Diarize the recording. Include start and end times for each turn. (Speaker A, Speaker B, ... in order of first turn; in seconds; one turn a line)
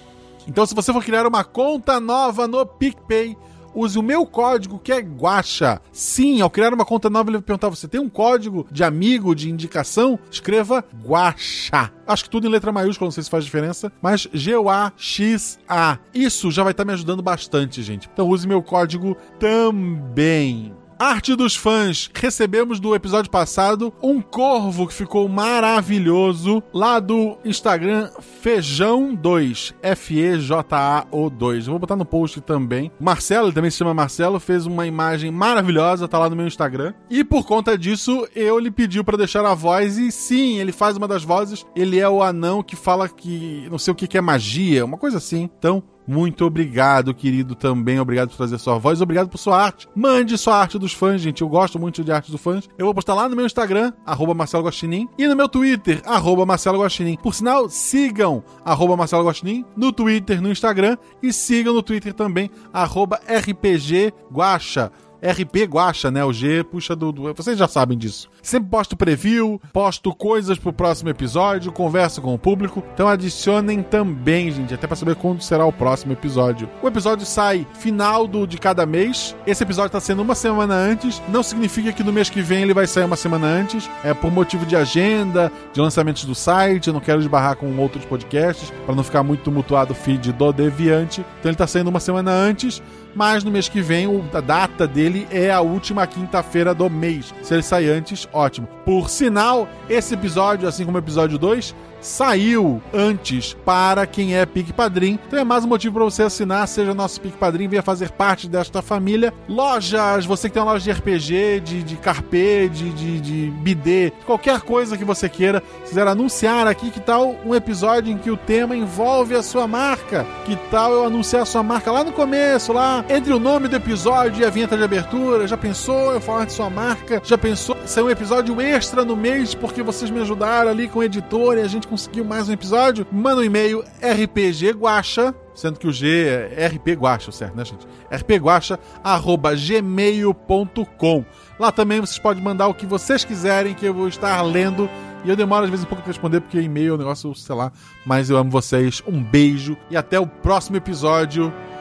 Speaker A: 0.5-151.6